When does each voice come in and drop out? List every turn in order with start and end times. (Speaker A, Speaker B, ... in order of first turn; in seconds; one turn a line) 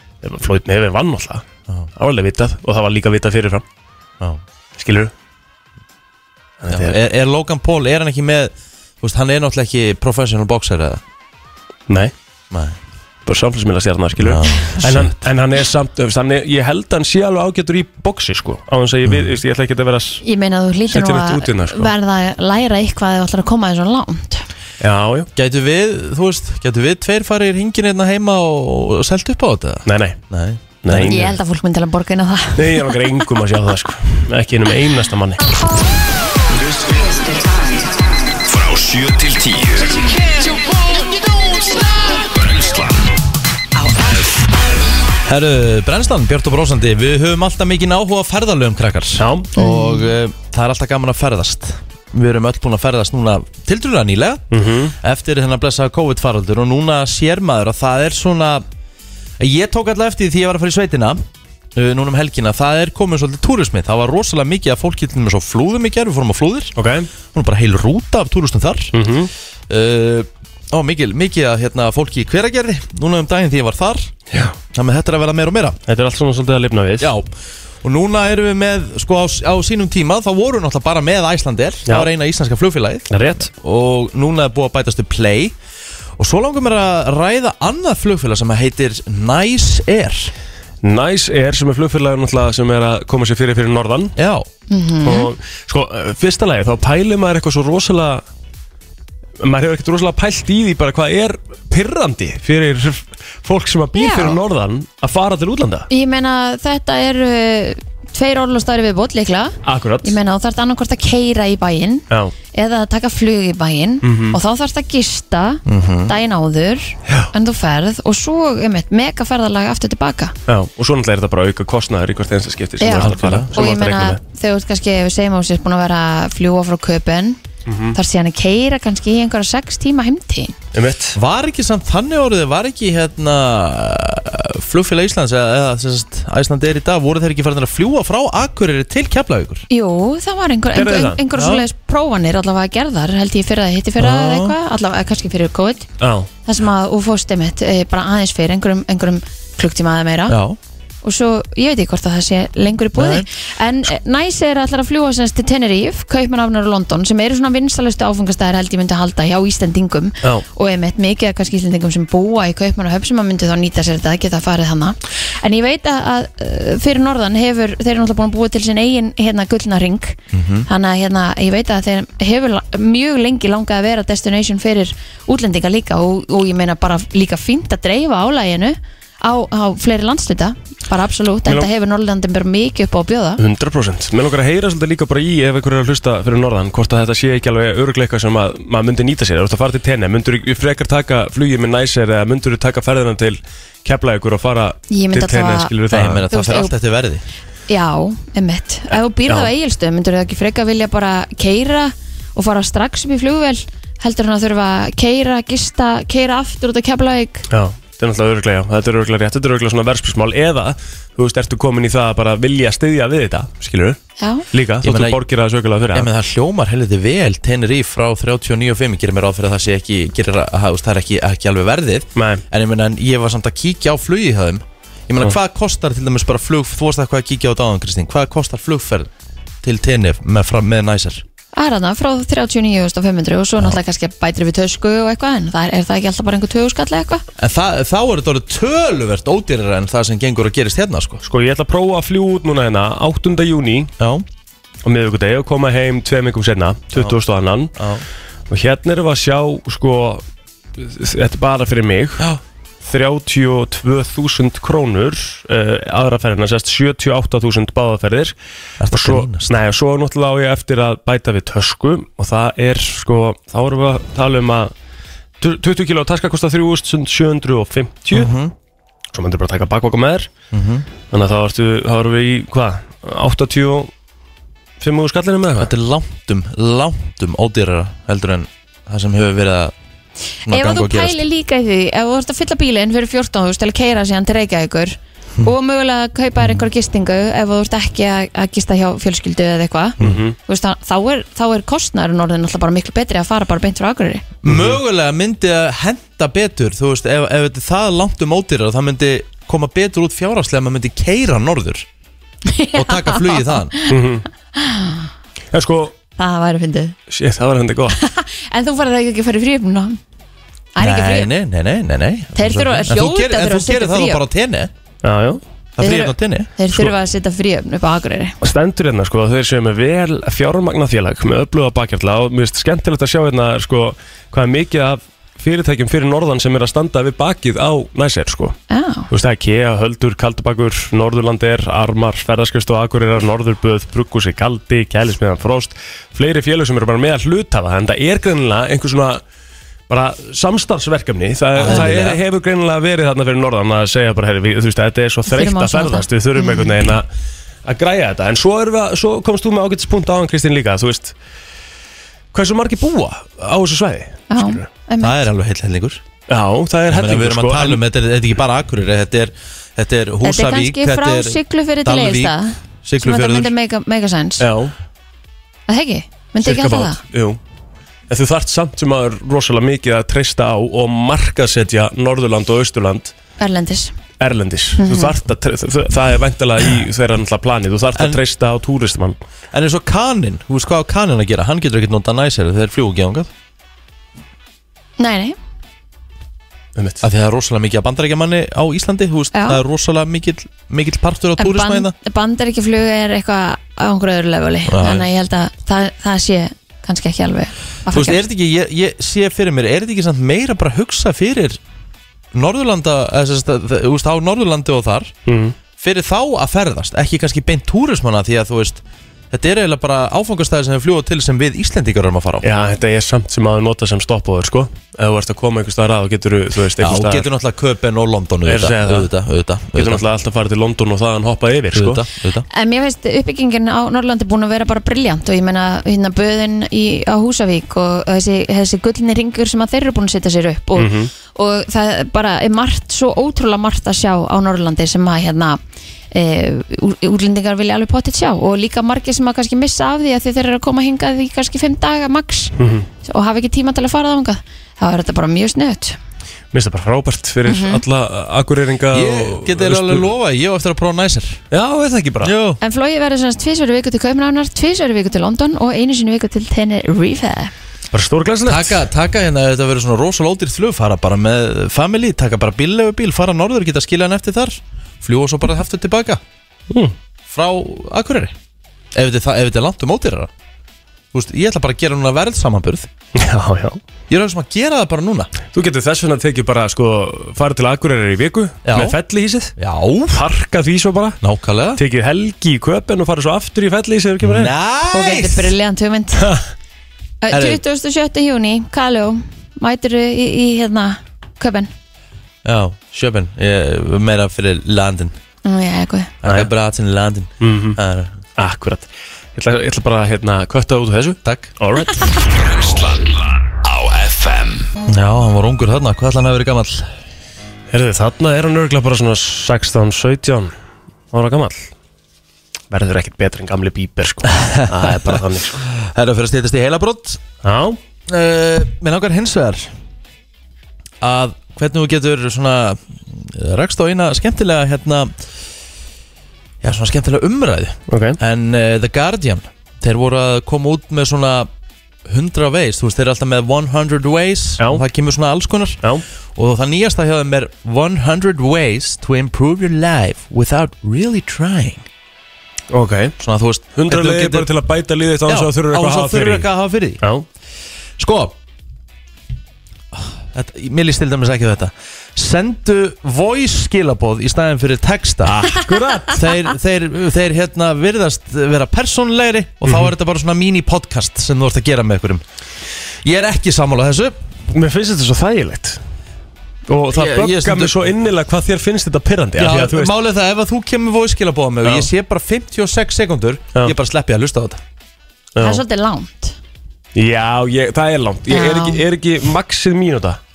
Speaker A: 0.2-1.4
Speaker A: 1.9-3.6
Speaker A: 4.8-5.1
Speaker A: 6.6-7.0
Speaker B: 6.7-11.0
Speaker A: 11.9-12.1
Speaker B: 12.5-12.8
Speaker A: 13.2-20.2
Speaker B: 14.2-15.3
Speaker C: 20.2-24.4
Speaker A: 20.9-21.9
Speaker A: 24.8-25.3
Speaker B: 25.4-31.2
Speaker A: 29.9-30.2
Speaker A: 30.8-31.4
Speaker C: 30.9-33.1
Speaker A: 32.5-35.4
Speaker D: 36.5-37.4
Speaker D: 38.5-40.2
Speaker D: 42.2-43.1
Speaker B: 45.2-58.6
Speaker A: 49.2-49.5
Speaker C: 49.5-50.1
Speaker A: 54.5-54.9
Speaker B: 59.4-61.2
Speaker B: 61.7-66.8
Speaker A: 66.8-67.1
Speaker B: 67.3-69.0
Speaker A: 68.9-69.3
Speaker B: 69.7-74.1
Speaker B: 74.7-75.8
Speaker A: 75.9-77.1
Speaker B: 77.0-77.3
Speaker B: 77.8-85.5
Speaker A: 83.1-83.5
Speaker B: 86.2-90.3
Speaker A: 90.8-94.1
Speaker B: 94.2-94.5
Speaker C: 94.7-95.3
Speaker A: 95.0-98.2
Speaker A: 99.4-105.9
Speaker C: 103.9-104.4
Speaker C: 105.9-120.3
Speaker A: 109.6-110.2
Speaker A: 114.0-114.4
Speaker B: 115.7-116.1
Speaker A: 120.5-124.2
Speaker C: 122.8-127.4
Speaker B: 122.9-123.5
Speaker A: 127.7-128.0
Speaker C: 127.9-130.5
Speaker A: 130.7-131.2
Speaker B: 131.1-139.6
Speaker C: 139.7-145.9
Speaker A: 140.7-141.2
Speaker B: 141.3-141.7
Speaker B: 144.0-144.5
Speaker A: 146.0-146.3
Speaker C: 146.4-150.4
Speaker B: 150.3-150.6
Speaker C: 151.0-183.4
Speaker B: 152.9-153.3
Speaker B: 170.3-170.7
Speaker A: 183.4-196.3
Speaker C: 194.9-195.7
Speaker B: 195.9-197.2
Speaker C: 196.3-196.7
Speaker C: 197.7-207.4
Speaker A: 207.5-214.0
Speaker C: 214.2-214.4
Speaker A: 214.5-216.1
Speaker B: 214.8-215.2
Speaker B: 215.9-229.1
Speaker A: 222.2-222.4
Speaker B: 229.6-231.2
Speaker C: 231.5-237.2
Speaker B: 237.4-241.2
Speaker A: 241.2-243.9
Speaker B: 244.0-244.2
Speaker A: 244.8-247.7
Speaker B: 247.8-248.0
Speaker A: 248.5-250.2
Speaker A: 250.8-252.3
Speaker A: 252.8-258.3
Speaker B: 258.8-259.5
Speaker A: 258.9-264.7
Speaker A: 265.4-268.3
Speaker B: 268.1-268.5
Speaker A: 269.1-270.3
Speaker B: 270.5-270.9
Speaker A: 271.1-273.9
Speaker A: 274.8-275.7
Speaker B: 275.6-279.7
Speaker B: 280.4-281.2
Speaker C: 280.5-294.2
Speaker A: 290.0-290.3
Speaker B: 294.4-301.9
Speaker A: 294.4-294.8
Speaker C: 302.5-304.0
Speaker B: 302.7-303.7
Speaker A: 303.9-304.2
Speaker C: 304.5-305.1
Speaker A: 305.5-305.9
Speaker C: 306.2-306.9
Speaker A: 307.1-308.0
Speaker C: 307.9-310.0
Speaker C: 310.7-311.3
Speaker B: 310.8-314.7
Speaker C: 312.3-314.2
Speaker A: 312.5-312.8
Speaker A: 315.0-315.4
Speaker B: 315.8-316.5
Speaker C: 315.8-318.3
Speaker A: 318.4-328.6
Speaker C: 328.7-329.1
Speaker A: 329.1-339.2
Speaker A: 339.9-347.0
Speaker B: 341.6-342.2
Speaker C: 345.3-346.7
Speaker A: 347.6-351.1
Speaker A: 352.3-354.6
Speaker C: 354.3-355.2
Speaker B: 355.0-356.0
Speaker A: 356.3-357.8
Speaker B: 356.9-363.5
Speaker C: 360.2-364.5
Speaker A: 364.4-364.7
Speaker C: 365.7-367.0
Speaker A: 366.4-367.4
Speaker A: 368.1-373.1
Speaker C: 373.4-373.9
Speaker A: 374.2-379.2
Speaker C: 374.8-375.2
Speaker B: 377.9-378.2
Speaker B: 379.5-383.3
Speaker C: 385.0-385.4
Speaker A: 386.8-387.0
Speaker B: 387.0-391.9
Speaker C: 389.3-389.6
Speaker C: 391.4-398.2
Speaker B: 394.7-395.1
Speaker B: 397.9-401.6
Speaker B: 402.3-405.1
Speaker A: 405.2-405.5
Speaker B: 405.8-412.5
Speaker A: 412.4-417.3
Speaker B: 416.8-420.0
Speaker A: 418.4-419.1
Speaker A: 419.7-422.0
Speaker B: 421.7-422.4
Speaker C: 422.5-435.6
Speaker A: 430.7-431.1
Speaker C: 436.1-442.5
Speaker A: 442.6-442.9
Speaker C: 443.0-446.0
Speaker A: 446.5-450.1
Speaker C: 447.4-447.8
Speaker B: 448.9-451.4
Speaker A: 451.5-452.3
Speaker B: 452.2-452.6
Speaker C: 452.6-457.5
Speaker A: 457.9-458.8
Speaker B: 458.4-466.2
Speaker B: 467.3-468.3
Speaker B: 468.9-470.3
Speaker B: 471.1-472.9
Speaker A: 473.1-473.8
Speaker B: 474.1-475.3
Speaker A: 475.5-479.5
Speaker B: 478.6-479.0
Speaker B: 479.6-480.2
Speaker A: 480.1-481.2
Speaker B: 481.2-481.8
Speaker A: 481.7-484.5
Speaker B: 484.2-485.5
Speaker C: 484.9-486.3
Speaker C: 487.2-491.7
Speaker B: 487.3-487.6
Speaker B: 492.4-495.1
Speaker C: 495.4-496.1
Speaker B: 496.2-498.2
Speaker A: 496.2-496.5
Speaker A: 497.4-497.8
Speaker A: 498.4-502.2
Speaker B: 501.2-501.5
Speaker D: 502.3-504.7
Speaker B: 504.9-506.9
Speaker A: 507.7-510.5
Speaker A: 511.1-511.7
Speaker A: 512.7-515.6
Speaker B: 514.3-517.2
Speaker A: 517.4-517.8
Speaker B: 518.1-519.7
Speaker B: 521.0-525.1
Speaker B: 526.6-531.5
Speaker A: 527.9-528.2
Speaker B: 532.0-535.8
Speaker B: 536.4-541.9
Speaker A: 542.7-543.1
Speaker B: 543.2-544.5
Speaker A: 543.7-546.5
Speaker B: 545.3-547.0
Speaker B: 548.0-548.4
Speaker B: 549.9-555.5
Speaker A: 555.2-556.4
Speaker B: 556.1-562.2
Speaker A: 559.6-559.9
Speaker B: 563.0-564.1
Speaker A: 564.5-565.8
Speaker A: 566.7-569.9
Speaker B: 566.9-567.8
Speaker B: 569.4-574.6
Speaker A: 575.4-575.6
Speaker C: 575.4-576.4
Speaker A: 576.9-580.2
Speaker C: 578.3-578.8